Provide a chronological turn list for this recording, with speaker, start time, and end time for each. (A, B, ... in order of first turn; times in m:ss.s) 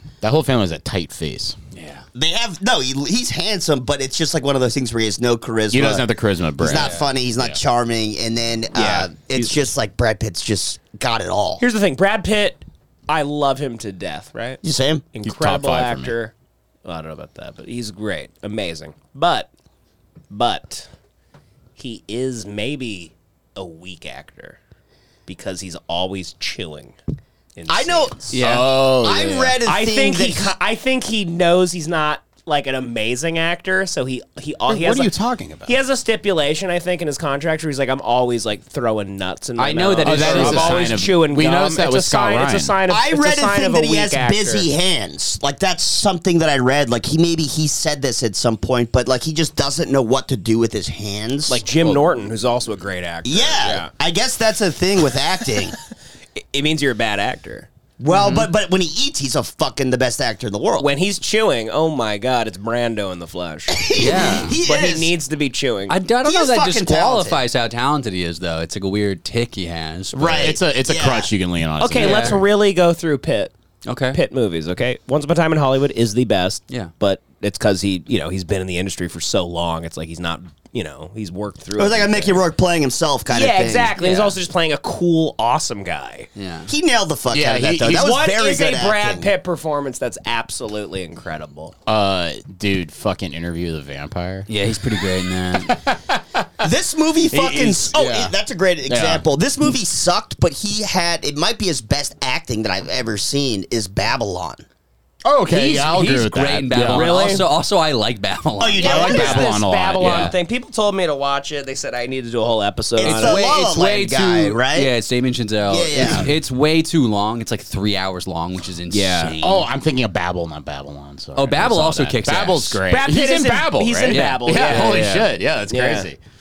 0:00.2-0:01.6 A
0:01.7-0:02.0 B
0:02.1-0:11.6 C
0:05.7-0:07.6 A
0:06.7-0:07.0 B
0:08.7-0:09.1 D
0:11.6-0:14.6 D
0:14.6-0:15.0 C
0:15.1-0:16.3 D
0:15.2-0:16.1 A
0:16.8-0:19.5 D
0:20.3-0:20.9 D
0:21.8-0:24.6 D
0:25.3-0:27.0 D
0:27.6-0:28.4 D
0:27.7-0:30.5 C
0:28.3-0:28.7 B
0:28.3-0:29.6 A
0:29.6-0:35.1 D
0:34.7-0:35.7 A
0:35.6-0:44.7 D
0:39.6-0:41.0 B
0:40.0-0:42.8 A
0:42.9-0:51.6 C
0:51.5-0:53.9 D
0:53.2-0:55.8 C
0:56.4-0:57.7 D
0:58.0-1:00.9 C
0:58.1-0:58.5 B
1:00.8-1:04.0 D
1:03.7-1:05.1 C
1:04.0-1:04.6 B
1:04.6-1:05.9 D
1:05.9-1:10.5 B
1:06.2-1:07.4 C
1:10.1-1:11.3 C
1:10.2-1:12.4 A
1:11.8-1:13.5 D
1:11.9-1:12.4 B
1:13.8-1:14.2 B
1:14.1-1:22.4 D
1:21.8-1:24.0 C
1:23.3-1:26.3 D
1:24.0-1:24.3 B
1:26.4-1:26.7 B
1:26.7-1:29.3 C
1:27.3-1:28.1 A
1:27.8-1:31.7 D
1:31.8-1:34.5 A
1:34.5-1:35.8 B
1:35.7-1:36.5 A
1:36.6-1:44.6 C
1:37.3-1:38.3 A
1:38.9-1:39.2 A
1:45.2-1:47.2 A
1:45.5-1:49.4 B
1:46.9-1:47.4 D
1:48.6-1:49.5 C
1:48.8-1:50.3 A
1:48.8-1:53.4 D
1:50.0-1:50.3 B
1:53.0-1:54.9 C
1:53.0-1:59.7 B
1:55.7-1:56.3 C
1:58.9-1:59.4 D
1:59.4-2:06.2 A
2:01.4-2:02.8 B
2:02.9-2:05.1 D
2:04.1-2:05.3 B
2:05.7-2:06.1 D